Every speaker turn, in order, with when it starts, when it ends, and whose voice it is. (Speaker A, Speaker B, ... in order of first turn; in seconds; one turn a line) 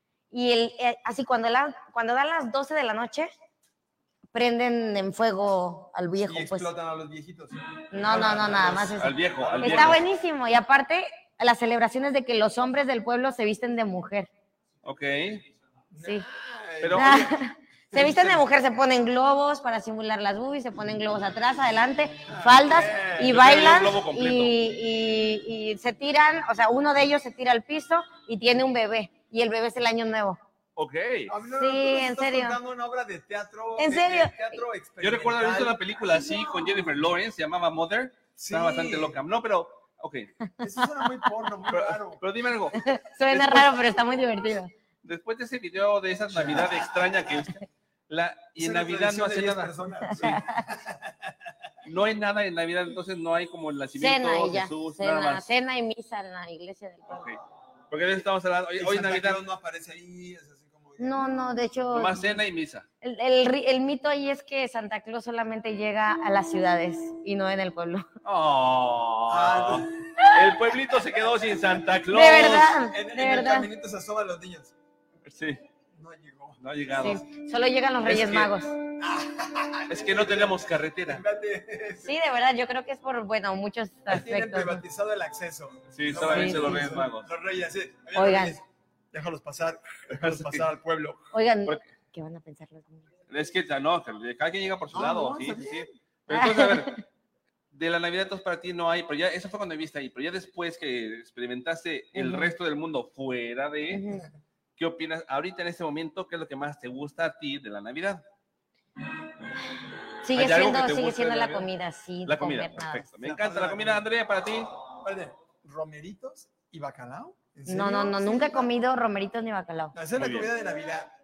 Speaker A: 0.3-3.3
Speaker A: 4.3-6.7
Speaker B: 6.2-10.0
Speaker A: 7.9-14.3
Speaker C: 9.0-10.0
Speaker C: 14.8-15.4
Speaker B: 15.9-17.3
Speaker A: 16.0-16.2
Speaker C: 16.8-17.3
Speaker A: 16.9-30.4
Speaker B: 17.9-18.4
Speaker B: 22.4-23.4
Speaker C: 22.4-24.5
Speaker C: 30.8-31.3
Speaker B: 31.3-35.8
Speaker A: 31.5-32.6
Speaker A: 33.8-34.6
Speaker C: 35.0-40.3
Speaker B: 38.4-39.2
Speaker B: 40.6-42.2
Speaker C: 41.7-43.7
Speaker A: 42.7-44.7
Speaker C: 45.0-50.4
Speaker B: 48.6-51.3
Speaker A: 50.1-50.6
Speaker C: 51.8-55.4
Speaker A: 54.0-57.2
Speaker C: 57.1-57.4
Speaker C: 57.9-59.4
Speaker B: 58.8-61.2
Speaker A: 61.0-62.4
Speaker C: 61.9-62.8
Speaker A: 63.0-68.0
Speaker C: 68.2-72.8
Speaker B: 69.3-70.1
Speaker B: 71.4-71.8
Speaker A: 72.1-73.7
Speaker B: 72.8-74.7
Speaker C: 75.2-75.6
Speaker B: 75.9-76.6
Speaker C: 76.6-77.2
Speaker A: 77.0-78.8
Speaker C: 78.0-78.5
Speaker B: 79.0-82.1
Speaker C: 79.9-81.2
Speaker A: 82.0-84.8
Speaker B: 84.1-91.3
Speaker C: 85.9-87.3
Speaker A: 86.1-87.0
Speaker A: 88.1-88.6
Speaker C: 90.1-90.7
Speaker A: 91.3-93.0
Speaker C: 93.3-97.0
Speaker B: 94.9-95.9
Speaker A: 96.3-97.0
Speaker C: 97.7-104.0
Speaker A: 102.1-102.5
Speaker A: 103.9-104.2
Speaker C: 104.8-108.2
Speaker A: 110.2-113.0
Speaker C: 110.3-111.7
Speaker C: 112.2-114.7
Speaker B: 113.2-114.1
Speaker B: 115.0-118.7
Speaker A: 117.7-119.9
Speaker B: 119.9-121.1
Speaker C: 120.2-120.5